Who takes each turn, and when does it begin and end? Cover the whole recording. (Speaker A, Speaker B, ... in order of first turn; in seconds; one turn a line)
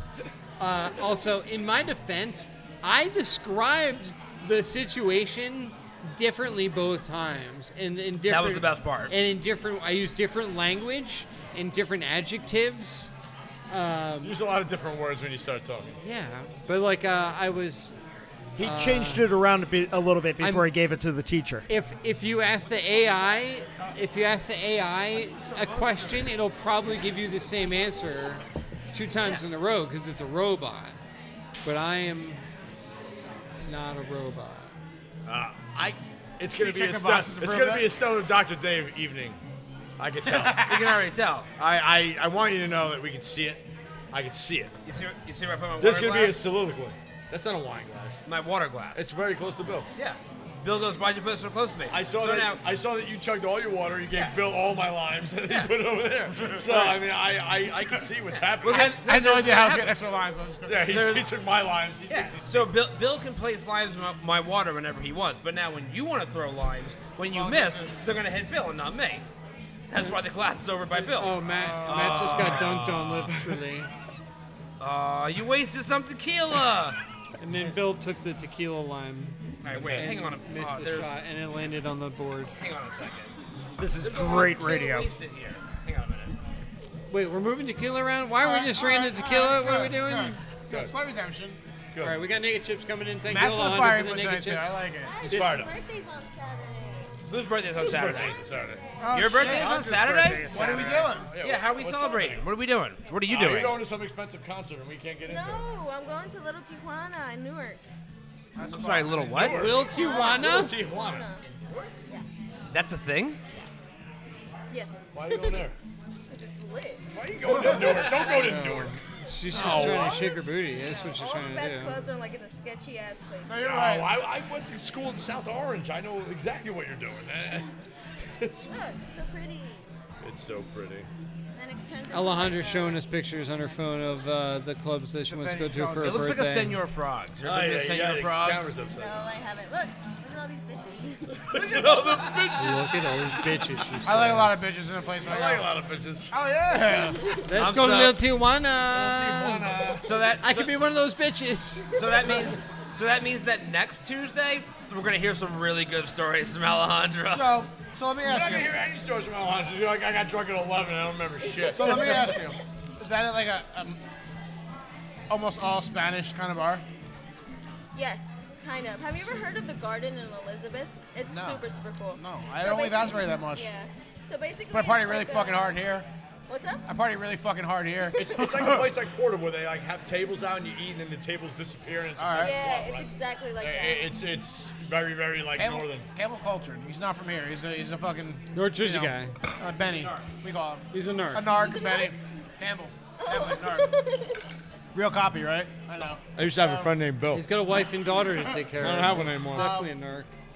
Speaker A: 0.6-13.1
Speaker B: 8.3-9.1
Speaker A: 13.7-14.3
Speaker C: 14.2-15.9
Speaker A: 16.0-17.9
Speaker D: 18.6-21.7
Speaker A: 18.6-19.3
Speaker A: 20.4-20.7
Speaker A: 21.7-28.4
Speaker E: 22.6-24.0
Speaker E: 25.1-26.3
Speaker A: 28.9-30.9
Speaker A: 31.6-32.4
Speaker A: 33.6-34.7
Speaker C: 35.2-39.4
Speaker E: 36.5-37.9
Speaker C: 40.0-40.7
Speaker E: 40.2-41.0
Speaker B: 40.6-41.5
Speaker C: 41.6-44.7
Speaker B: 44.9-46.4
Speaker C: 45.8-48.2
Speaker B: 48.3-49.1
Speaker C: 48.9-49.9
Speaker B: 50.0-52.6
Speaker C: 51.9-59.0
Speaker B: 55.5-55.7
Speaker E: 56.6-57.0
Speaker B: 58.3-59.9
Speaker E: 58.7-61.0
Speaker C: 60.6-62.7
Speaker B: 60.9-61.3
Speaker B: 62.1-69.2
Speaker E: 67.3-68.0
Speaker B: 69.9-73.3
Speaker A: 70.9-73.9
Speaker E: 71.5-72.4
Speaker C: 72.3-73.6
Speaker B: 74.8-77.0
Speaker A: 77.4-82.5
Speaker B: 79.6-81.1
Speaker C: 79.7-80.1
Speaker B: 82.6-83.3
Speaker D: 83.8-85.1
Speaker B: 84.0-86.3
Speaker A: 87.1-90.4
Speaker E: 88.4-91.6
Speaker C: 91.9-92.2
Speaker A: 92.0-94.8
Speaker E: 93.3-95.2
Speaker F: 95.0-97.1
Speaker C: 95.2-95.7
Speaker A: 95.3-95.6
Speaker B: 97.3-103.8
Speaker C: 97.8-98.8
Speaker F: 98.6-99.2
Speaker E: 99.0-101.3
Speaker D: 99.3-101.1
Speaker C: 99.4-102.5
Speaker C: 103.3-105.6
Speaker F: 105.2-107.8
Speaker E: 108.5-109.9
Speaker B: 108.7-109.8
Speaker C: 109.3-111.2
Speaker A: 109.5-110.8
Speaker F: 109.8-111.4
Speaker B: 111.4-111.9
Speaker B: 112.7-113.4
Speaker F: 114.7-115.7
Speaker C: 115.1-115.7
Speaker F: 116.3-117.0
Speaker C: 117.1-120.2
Speaker E: 117.6-117.9
Speaker B: 117.9-118.2
Speaker A: 118.3-122.0
Speaker F: 119.5-123.6
Speaker E: 119.7-120.0
Speaker E: 123.5-124.1
Speaker C: 123.6-127.7
Speaker C: 128.4-128.7
Speaker F: 128.7-129.8
Speaker C: 130.2-131.1
Speaker F: 131.6-133.0
Speaker A: 132.1-136.8
Speaker E: 135.3-136.3
Speaker B: 136.0-138.7
Speaker C: 137.4-139.2
Speaker F: 138.8-141.5
Speaker C: 141.5-143.1
Speaker B: 141.5-143.2
Speaker A: 142.5-144.6
Speaker E: 144.1-145.8
Speaker C: 145.2-146.4
Speaker E: 146.3-147.3
Speaker A: 147.4-151.9
Speaker B: 147.6-148.2
Speaker C: 148.9-150.3
Speaker B: 150.0-150.7
Speaker B: 151.9-157.5
Speaker F: 151.9-152.4
Speaker E: 157.2-158.7
Speaker C: 158.2-162.3
Speaker F: 161.6-162.4
Speaker E: 161.7-164.0
Speaker E: 165.3-166.8
Speaker F: 167.9-175.8
Speaker E: 171.3-171.6
Speaker E: 172.2-173.7
Speaker E: 174.7-176.1
Speaker F: 176.5-176.8
Speaker E: 176.9-178.9
Speaker F: 178.0-178.5
Speaker C: 178.2-183.1
Speaker E: 182.2-182.5
Speaker F: 182.4-184.0
Speaker C: 183.6-186.1
Speaker E: 185.5-193.9
Speaker A: 188.5-189.3
Speaker A: 190.9-191.4
Speaker F: 191.5-192.2
Speaker F: 193.2-194.4
Speaker E: 194.9-196.9
Speaker C: 196.3-197.5
Speaker A: 197.3-200.3
Speaker C: 198.8-199.7
Speaker E: 199.5-199.9